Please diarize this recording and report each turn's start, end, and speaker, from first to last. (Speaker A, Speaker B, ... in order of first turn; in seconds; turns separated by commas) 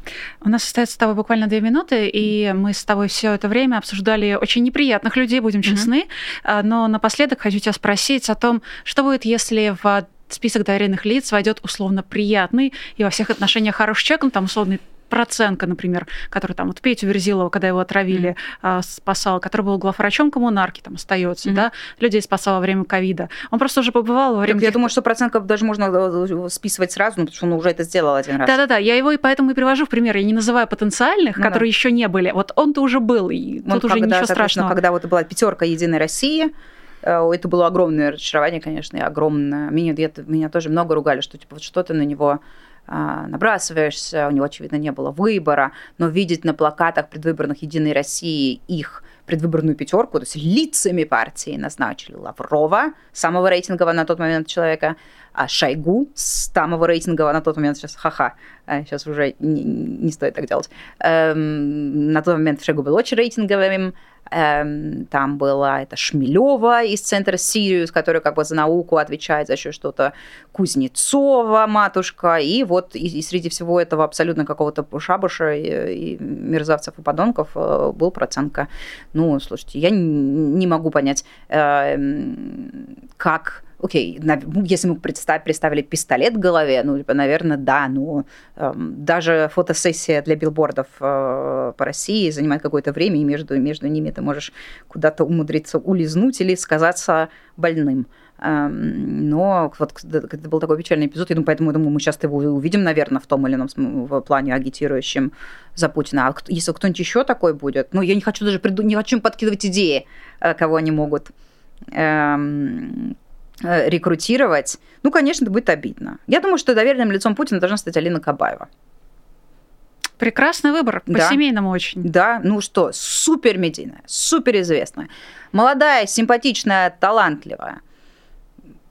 Speaker A: 0.4-24.9, Speaker B: 24.5-28.6, Speaker A: 28.4-34.8, Speaker B: 33.7-36.5, Speaker B: 37.0-111.3, Speaker B: 111.9-118.7, Speaker A: 120.2-122.1, Speaker B: 121.1-121.4, Speaker B: 122.0-127.8